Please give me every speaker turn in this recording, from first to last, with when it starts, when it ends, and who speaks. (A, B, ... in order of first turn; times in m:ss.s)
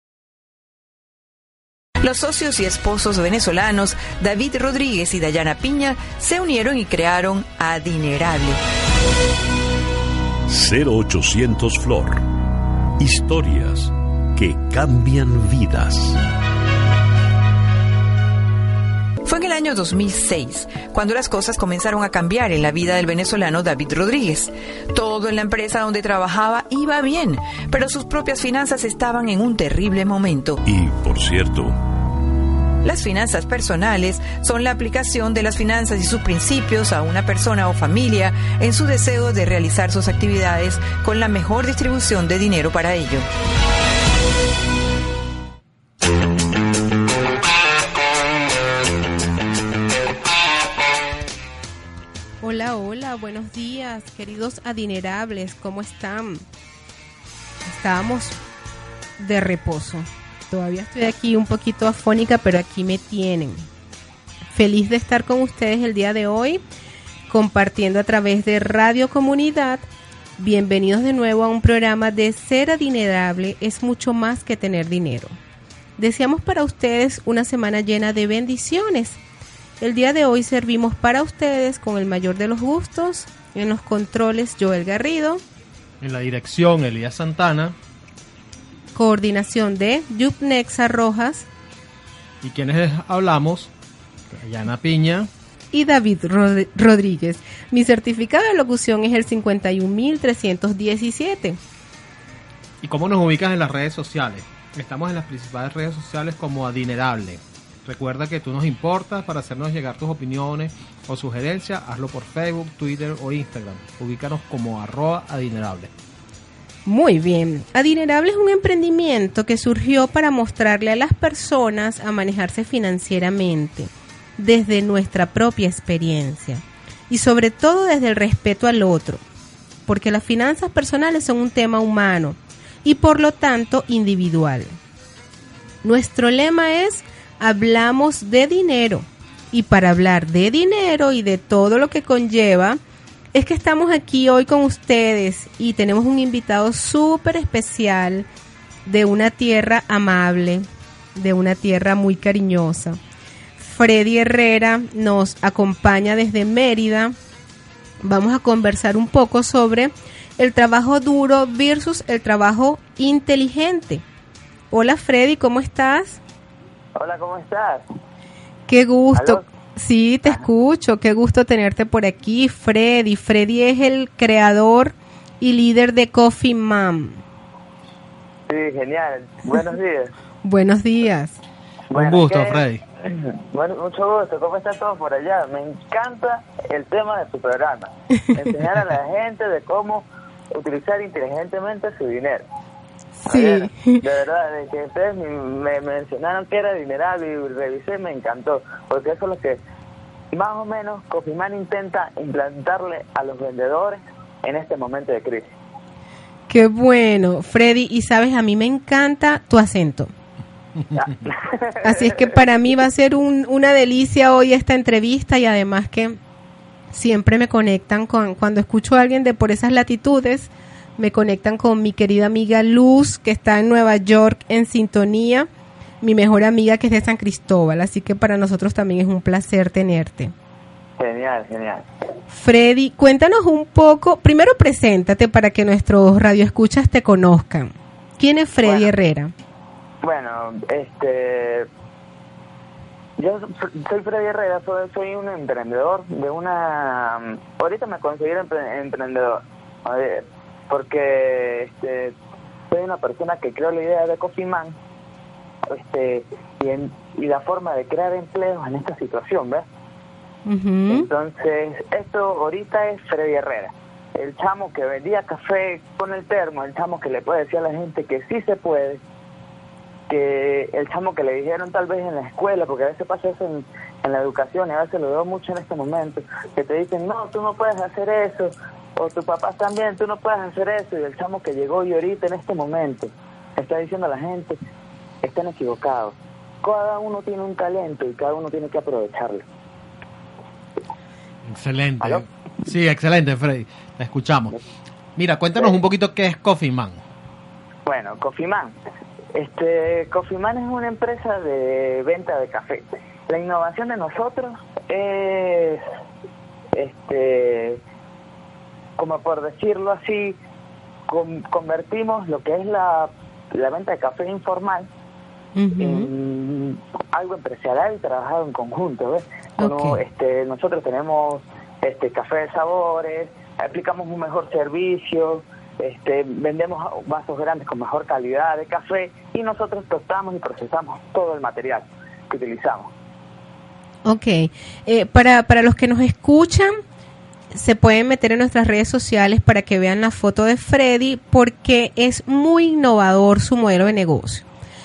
0:02.0-0:08.6 A
0:10.5-0:12.2 B
0:13.0-0:16.2 B
0:19.2-0:30.6 A
0:30.6-0:31.8 B
0:32.8-0:43.3 A
0:52.4-0:56.4 C
0:57.6-0:58.4 C
0:59.2-1:03.6 C
1:04.5-1:06.6 C
1:07.3-1:09.8 C
1:10.4-1:15.4 C
1:16.0-1:19.2 C
1:19.8-1:25.4 C
1:26.0-1:27.7 D
1:28.9-1:31.4 C
1:32.4-1:33.7 D
1:34.3-1:35.3 D
1:35.7-1:41.6 C
1:42.8-1:55.9 D
1:56.8-2:09.2 C
2:09.8-2:14.8 C
2:15.8-2:22.8 C
2:23.3-2:28.3 C
2:28.8-2:33.0 C
2:33.6-2:37.1 C
2:38.0-2:44.0 C
2:44.7-2:46.2 C
2:47.0-2:47.8 E
2:48.7-2:57.2 C
2:49.1-2:49.4 E
2:58.5-3:00.1 E
3:00.4-3:01.4 C
3:01.9-3:12.4 E
3:01.9-3:02.8 D
3:13.2-3:14.0 C
3:13.3-3:19.6 E
3:20.3-3:25.5 E
3:26.5-3:30.1 C
3:30.9-3:32.4 E
3:31.8-3:36.2 C
3:36.9-3:45.5 C
3:46.0-3:50.3 C
3:51.0-3:51.9 E
3:52.3-3:59.3 C
3:58.6-3:58.9 E
4:00.0-4:01.7 E
4:03.2-4:12.2 E
4:12.7-4:14.8 E
4:15.7-4:19.6 E
4:20.4-4:21.1 C
4:20.9-4:29.0 E
4:30.1-4:44.6 E
4:45.2-4:49.4 E
4:51.4-4:54.6 D
4:55.2-4:57.0 D
4:57.8-4:58.8 E
4:59.3-5:05.8 E
5:06.7-5:07.8 E
5:09.0-5:10.4 E
5:11.1-5:14.9 E
5:15.6-5:16.1 C
5:15.8-5:32.9 E
5:19.6-5:20.0 C
5:34.0-5:36.8 C
5:37.5-5:44.4 C